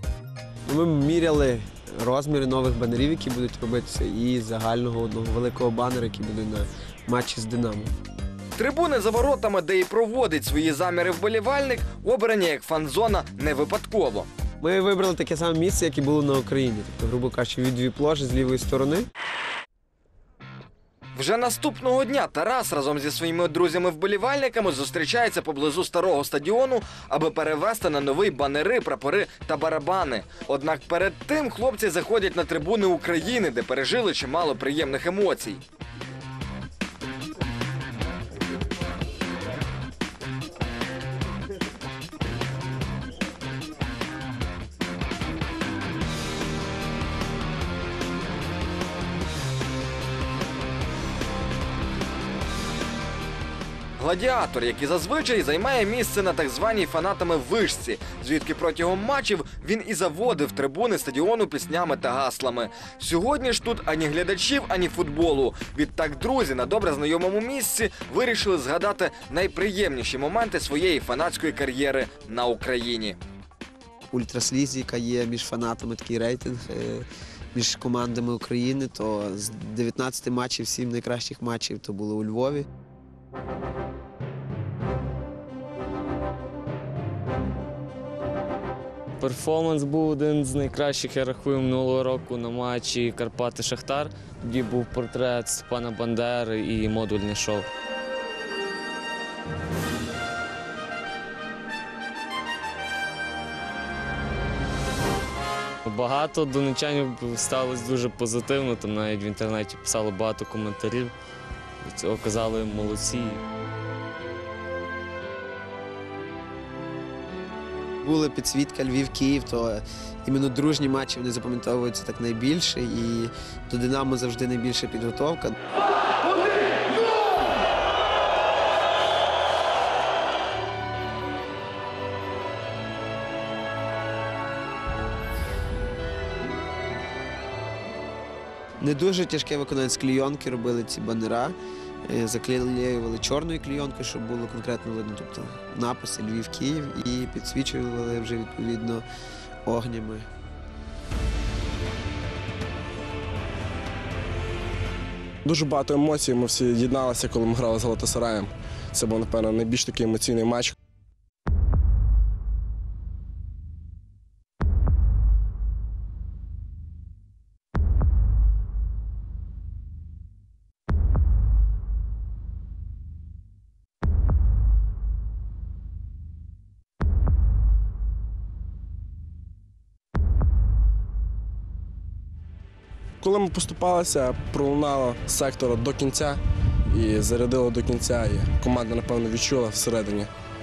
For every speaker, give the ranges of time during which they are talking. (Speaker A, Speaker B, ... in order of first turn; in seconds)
Speaker A: 0.7-7.9, 14.6-19.1, 74.1-82.7, 118.0-125.5, 138.8-149.0, 149.6-150.2
Speaker B: 8.6-14.3, 21.1-35.6, 54.0-73.2
Speaker C: 89.2-97.7, 105.8-111.1, 111.8-113.4
Speaker D: 155.4-160.7, 183.2-190.3